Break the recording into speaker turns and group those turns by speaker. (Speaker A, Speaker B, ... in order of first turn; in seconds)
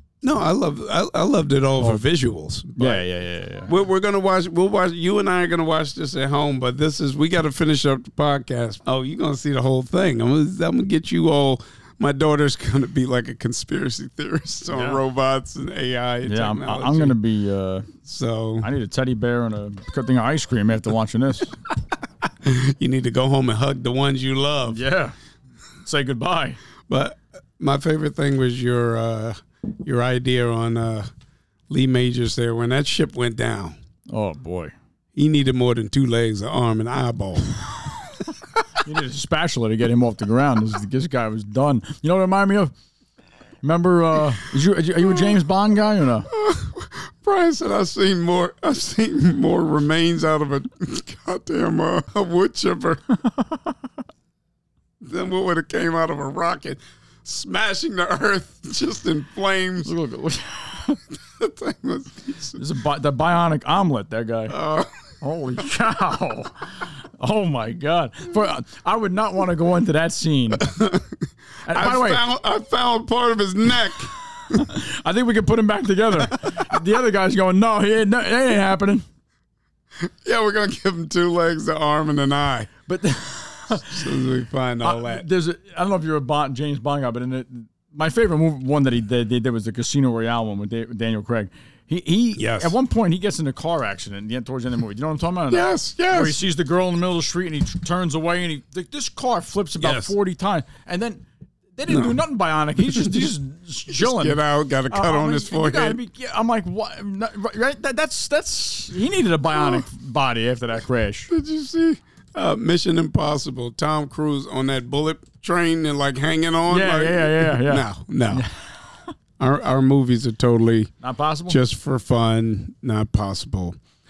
Speaker A: 0.2-3.0, 3.7-17.2, 18.0-18.7, 22.4-24.8, 26.9-31.1, 31.7-33.8, 35.2-37.6, 46.3-53.0, 55.0-59.9, 61.4-62.6, 64.5-65.0, 70.6-71.1, 71.7-74.7, 76.3-76.7, 80.0-82.7, 83.8-85.3, 92.4-92.7, 95.5-96.4, 99.8-100.1, 101.9-102.2, 103.9-106.0, 111.3-118.5, 119.4-120.9, 121.5-123.8
Speaker B: 2.8-3.8, 14.7-15.0, 16.3-17.9, 18.6-21.6, 24.7-25.2, 25.8-26.6, 34.1-34.7, 38.8-42.7, 43.6-46.3, 53.4-53.7, 59.8-61.0, 62.6-64.6, 65.2-70.8, 71.7-72.2, 74.4-79.0, 82.9-84.2, 84.8-101.2, 101.8-111.3, 116.7-119.1, 121.0-121.6